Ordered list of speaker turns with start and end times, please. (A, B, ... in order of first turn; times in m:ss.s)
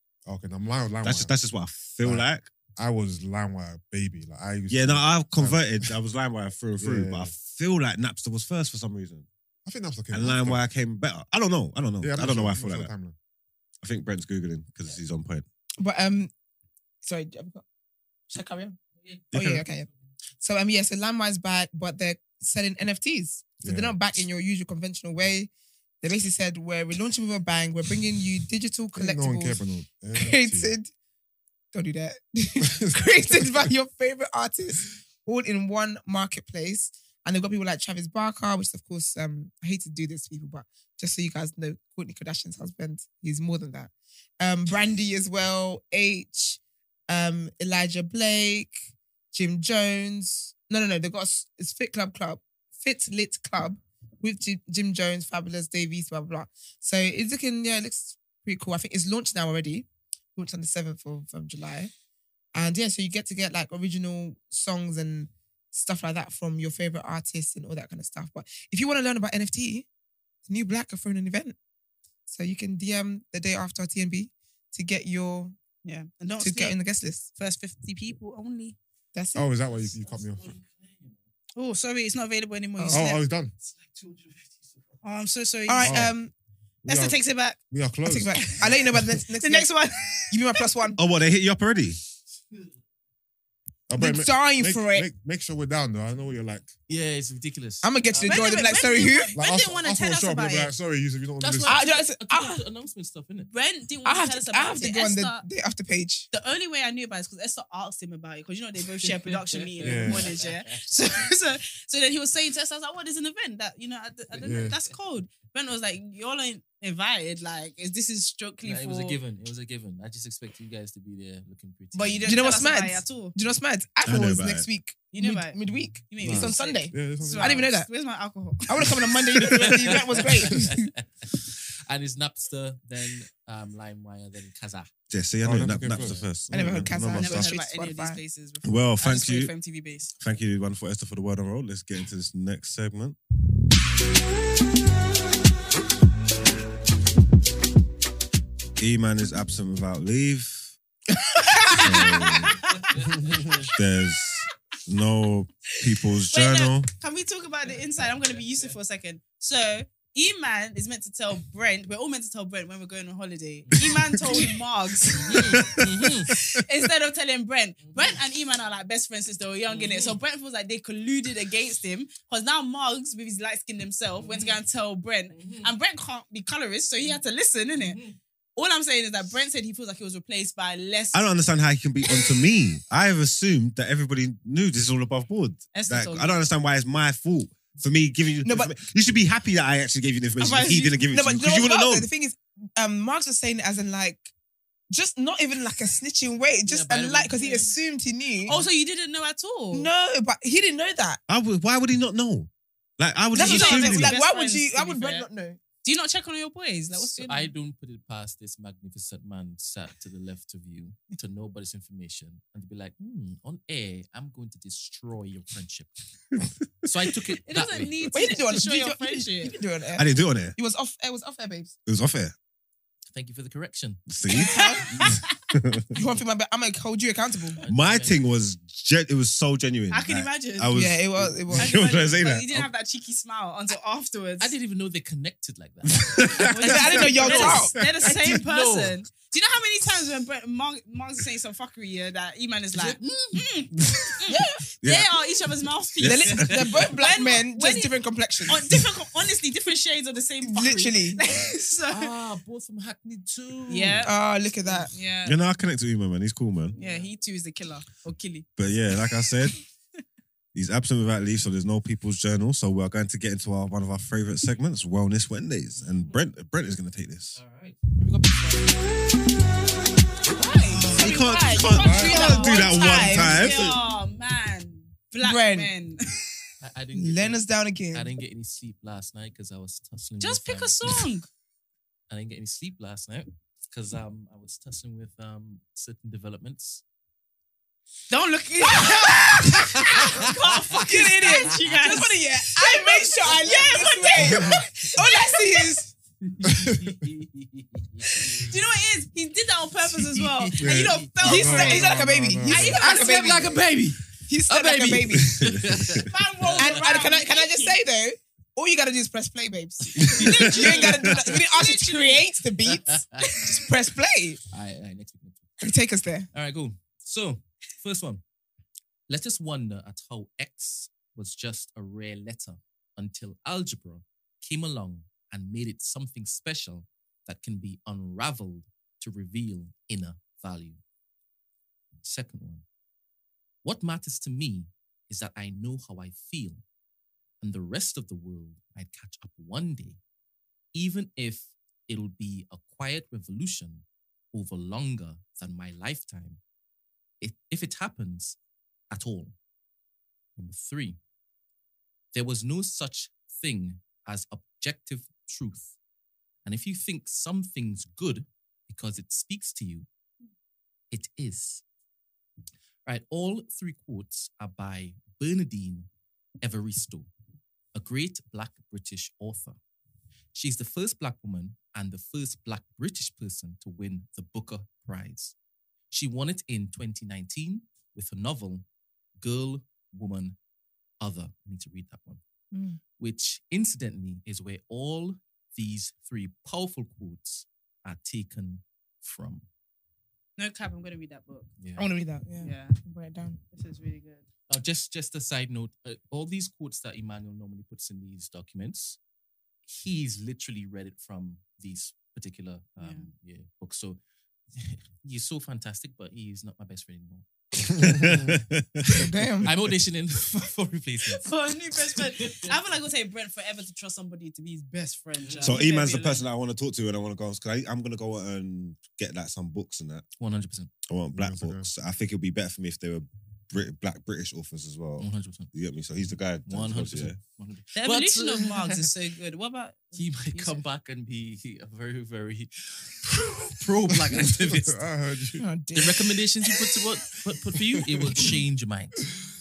0:00.2-0:01.3 A
0:01.0-0:02.5 B
0:02.8-0:05.9 A
0:04.7-0:09.3 B
0:06.8-0:07.3 A
0:09.6-0:10.6 A
0:10.1-0:12.9 B
0:12.0-0:13.2 A
0:13.8-0:15.4 B
0:15.8-0:16.3 C
0:17.0-0:17.6 C
0:18.3-0:18.8 C
0:19.3-0:19.9 C
0:19.3-0:19.6 B
0:20.4-0:25.5 C
0:23.6-0:24.0 A
0:26.0-0:29.6 C
0:28.9-0:30.7 A
0:30.1-0:30.9 C
0:31.7-0:48.8 C
0:32.6-0:33.7 A
0:49.3-1:01.9 C
1:02.5-1:09.9 C
1:10.4-1:11.6 C
1:12.3-1:15.6 C
1:15.8-1:16.8 D
1:16.4-1:17.3 C
1:17.4-1:18.8 D
1:19.1-1:19.5 C
1:19.3-1:20.5 A
1:20.0-1:21.1 E
1:21.6-1:23.2 D
1:22.8-1:23.1 C
1:22.9-1:23.5 A
1:23.6-1:24.9 E
1:25.0-1:26.0 D
1:25.7-1:26.3 C
1:25.8-1:26.1 A
1:26.8-1:27.2 A
1:26.9-1:27.6 D
1:27.7-1:29.0 A
1:28.0-1:29.7 C
1:29.4-1:30.6 D
1:30.3-1:31.0 C
1:31.0-1:32.0 B
1:33.9-1:36.7 A
1:34.0-1:35.1 C
1:36.9-1:38.7 E
1:37.8-1:39.3 C
1:38.2-1:40.7 D
1:39.4-1:41.8 A
1:41.4-1:43.5 E
1:41.6-1:42.6 C
1:43.5-1:45.4 D
1:44.0-1:46.3 C
1:46.3-1:59.2 D
1:49.0-1:50.9 E
1:49.8-1:50.3 A
1:54.4-1:54.8 A
1:58.6-2:02.4 E
2:01.9-2:03.3 D
2:02.2-2:07.9 C
2:04.0-2:04.7 B
2:05.1-2:05.6 D
2:06.1-2:10.0 D
2:06.2-2:07.6 A
2:08.6-2:10.9 C
2:09.4-2:14.9 E
2:15.1-2:17.5 B
2:15.4-2:17.0 A
2:15.9-2:16.3 E
2:16.5-2:18.2 C
2:17.1-2:20.1 D
2:18.6-2:19.5 B
2:20.2-2:23.2 B
2:28.8-2:30.7 B
2:31.2-2:32.3 C
2:31.5-2:32.8 D
2:31.7-2:32.6 B
2:32.7-2:33.6 E
2:33.6-2:36.9 B
2:36.2-2:58.0 D
2:37.9-2:38.7 E
2:45.1-2:46.3 E
2:47.8-2:48.2 E
2:49.7-2:50.2 E
2:54.2-2:54.6 E
2:55.3-2:55.7 E
2:57.7-2:58.2 E
2:58.6-3:01.2 D
3:01.1-3:12.1 B
3:02.0-3:02.4 D
3:05.7-3:06.4 D
3:08.4-3:08.7 C
3:10.4-3:11.0 D
3:10.4-3:14.3 C
3:14.9-3:18.6 C
3:16.7-3:17.7 E
3:17.3-3:17.7 D
3:18.4-3:18.7 E
3:18.4-3:19.9 D
3:19.7-3:21.2 C
3:21.3-3:24.1 B
3:23.3-3:25.6 C
3:23.3-3:25.3 D
3:25.8-3:27.5 D
3:26.9-3:35.9 E
3:36.8-3:38.1 E
3:37.4-3:39.6 D
3:38.1-3:41.7 C
3:39.9-3:40.6 B
3:41.8-3:42.3 B
3:43.1-3:44.0 E
3:44.1-3:46.0 B
3:44.3-3:44.9 C
3:44.3-3:45.3 D
3:44.9-3:45.2 E
3:45.9-3:47.6 C
3:47.5-3:48.2 E
3:47.7-3:52.7 B
3:49.9-3:50.7 D
3:50.7-3:51.7 C
3:51.6-3:54.5 D
3:54.4-3:59.0 E
3:55.9-3:56.9 B
3:56.4-4:07.9 D
3:56.6-3:57.7 C
4:02.7-4:03.5 E
4:03.8-4:04.2 B
4:04.3-4:04.6 C
4:04.8-4:05.1 B
4:06.0-4:06.6 B
4:06.0-4:08.8 C
4:06.3-4:06.7 E
4:08.5-4:12.1 D
4:10.4-4:11.2 C
4:11.9-4:14.1 E
4:13.7-4:14.1 D
4:14.0-4:14.9 C
4:14.9-4:15.4 D
4:15.2-4:16.8 B
4:16.7-4:17.1 E
4:16.8-4:18.5 D
4:18.6-4:19.6 B
4:20.5-4:27.4 B
4:25.8-4:26.2 E
4:27.3-4:27.8 E
4:28.0-4:28.7 C
4:30.3-4:36.0 D
4:30.4-4:33.6 C
4:30.6-4:33.8 B
4:31.8-4:32.1 A
4:33.0-4:33.7 E
4:35.2-4:35.7 C
4:36.6-4:37.4 E
4:36.9-4:38.2 C
4:37.9-4:41.1 E
4:40.2-4:41.3 D
4:42.1-4:46.8 E
4:48.1-4:55.9 D
4:49.5-4:52.1 E
4:50.8-4:55.9 C
4:54.2-4:54.5 A
4:56.4-4:58.5 E
4:56.5-4:56.8 A
4:58.3-5:03.5 D
4:59.8-5:01.1 E
5:00.6-5:02.7 A
5:01.2-5:03.5 C
5:02.5-5:07.0 E
5:04.3-5:05.3 C
5:05.3-5:06.0 B
5:06.0-5:07.8 D
5:06.6-5:14.4 C
5:10.0-5:10.7 B
5:10.0-5:11.4 E
5:10.2-5:12.3 D
5:12.7-5:13.4 E
5:14.5-5:15.7 E
5:15.6-5:16.3 C
5:16.3-5:18.2 E
5:19.1-5:30.8 E
5:32.0-5:32.6 E
5:33.6-5:36.6 E
5:37.4-5:40.0 E
5:40.7-5:46.4 E
5:47.2-5:48.4 E
5:48.9-5:49.3 E
5:50.4-5:51.0 E
5:52.1-5:55.8 E
5:56.4-5:59.9 E
6:00.9-6:01.6 E
6:02.8-6:05.9 E
6:06.4-6:07.1 E
6:07.7-6:09.6 E
6:10.3-6:15.3 E
6:15.9-6:18.6 E
6:19.2-6:20.4 E
6:21.0-6:22.2 E
6:22.5-6:22.8 C
6:23.0-6:29.4 E
6:30.4-6:31.5 D
6:31.6-6:31.9 E
6:31.8-6:33.4 C
6:32.4-6:32.8 D
6:33.5-6:34.3 D
6:34.5-6:39.0 E
6:39.7-6:44.0 E
6:42.8-6:43.1 D
6:44.5-6:48.2 E
6:47.7-6:49.0 B
6:48.0-6:48.3 A
6:48.8-6:49.5 C
6:49.4-6:52.5 E
6:51.1-6:56.3 D
6:55.2-6:55.6 E
6:55.4-7:00.0 B
7:00.2-7:00.7 E
7:00.8-7:07.2 B
7:01.1-7:01.7 A
7:05.0-7:05.5 E
7:06.4-7:08.9 E
7:07.7-7:10.6 D
7:09.9-7:14.8 E
7:13.9-7:15.4 A
7:15.4-7:16.1 C
7:15.7-7:19.1 E
7:17.8-7:18.3 A